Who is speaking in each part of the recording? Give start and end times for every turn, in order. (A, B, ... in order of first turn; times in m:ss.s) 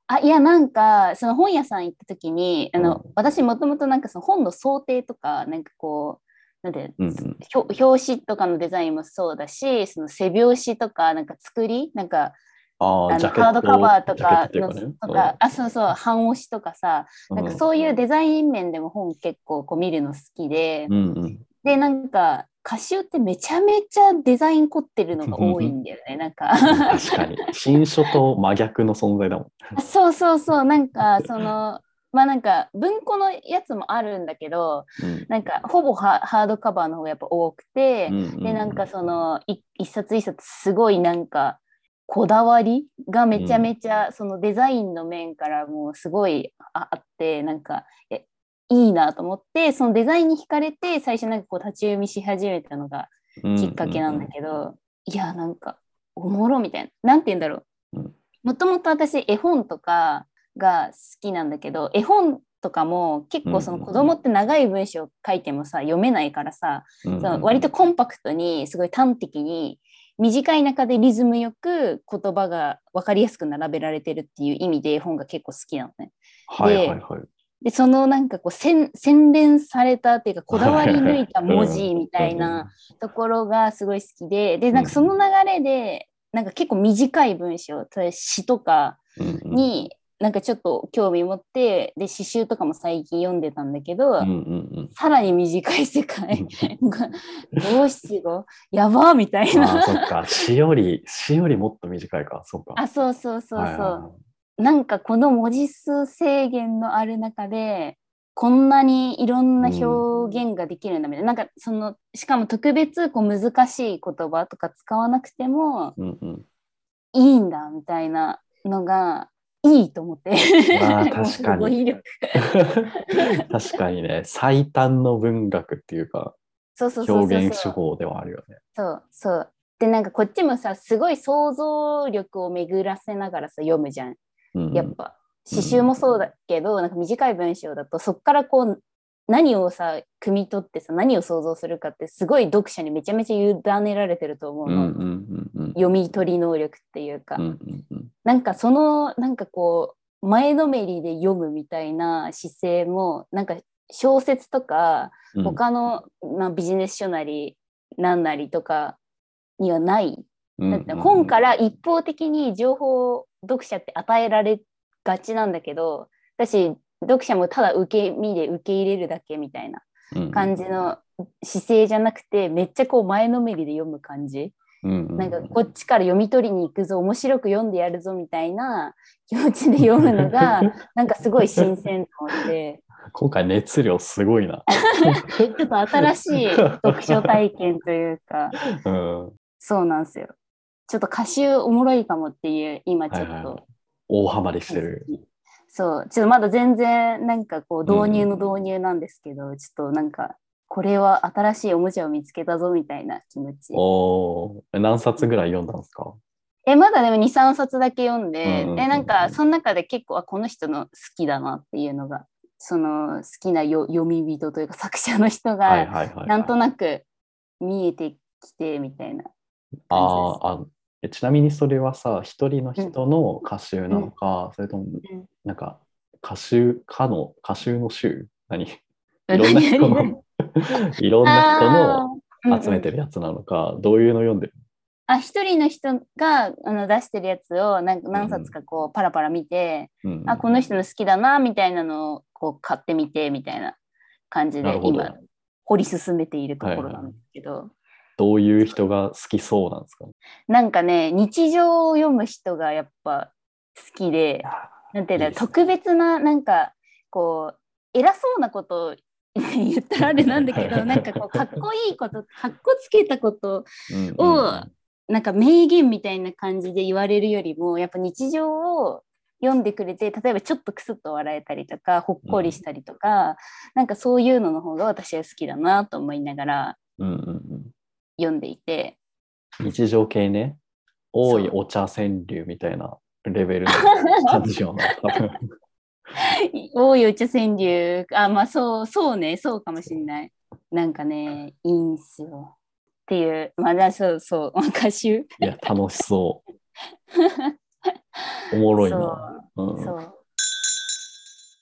0:00.1-0:12.4 A
0:02.8-0:03.1 B
0:07.0-0:07.4 B
0:12.8-0:15.4 B
0:13.1-0:20.9 A
0:17.3-0:17.6 B
0:20.9-0:21.4 B
0:21.6-0:27.1 A
0:25.3-0:25.7 B
0:26.7-0:29.6 B
0:29.8-0:57.6 A
0:35.0-0:35.3 B
0:38.1-0:38.8 B
0:43.3-0:43.7 B
0:53.4-0:54.3 B
0:58.4-1:17.0 A
1:03.4-1:04.1 B
1:07.0-1:07.7 B
1:16.5-1:17.3 B
1:17.6-1:29.0 A
1:20.5-1:22.7 B
1:24.7-1:25.1 B
1:29.2-1:29.7 B
1:29.5-1:34.3 A
1:34.2-1:34.9 B
1:34.9-1:40.1 A
1:36.3-1:36.7 B
1:39.5-1:42.8 B
1:42.8-1:44.0 A
1:43.5-1:44.1 B
1:44.6-1:56.0 A
1:49.6-1:50.0 B
1:56.0-1:56.4 B
1:57.1-2:02.4 A
2:00.7-2:01.8 B
2:02.4-2:06.4 B
2:06.8-2:07.8 A
2:07.0-2:08.6 B
2:08.7-2:14.2 A
2:14.5-2:14.9 B
2:14.7-2:25.0 A
2:15.5-2:15.9 B
2:24.6-2:25.8 B
2:25.7-2:27.4 A
2:27.4-2:28.1 B
2:28.2-2:39.0 A
2:35.3-2:35.6 B
2:39.6-2:54.6 A
2:40.6-2:41.3 B
2:50.1-2:50.5 B
2:54.8-2:55.5 B
2:55.2-3:02.8 A
3:00.2-3:00.6 B
3:03.1-3:06.1 B
3:05.4-3:08.6 A
3:06.7-3:07.4 B
3:08.8-3:09.3 B
3:09.6-3:10.3 A
3:10.9-3:13.6 A
3:13.1-3:15.1 B
3:14.7-3:23.8 A
3:17.8-3:18.3 B
3:23.7-3:26.1 B
3:26.6-3:37.0 A
3:28.4-3:29.4 B
3:35.6-3:36.5 B
3:37.6-3:39.3 A
3:39.9-3:48.8 B
3:39.9-3:40.4 A
3:49.3-3:50.2 B
3:49.3-3:50.1 A
3:50.9-3:54.5 B
3:51.2-3:52.9 A
3:55.1-4:03.8 A
3:58.1-3:58.5 B
4:00.0-4:00.4 B
4:04.3-4:07.7 A
4:04.6-4:05.2 B
4:06.6-4:07.1 B
4:08.2-4:10.1 B
4:10.5-4:36.8 A
4:14.4-4:15.5 B
4:20.0-4:21.6 B
4:23.9-4:24.7 B
4:32.2-4:32.6 B
4:37.0-4:37.7 B
4:38.2-4:39.0 A
4:39.6-4:40.6 B
4:41.1-4:45.4 B
4:41.2-4:41.5 A
4:46.2-4:52.5 A
4:53.1-4:55.4 A
4:55.4-4:56.4 B
4:57.1-4:57.5 A
4:58.5-4:59.9 B
4:58.8-5:00.2 A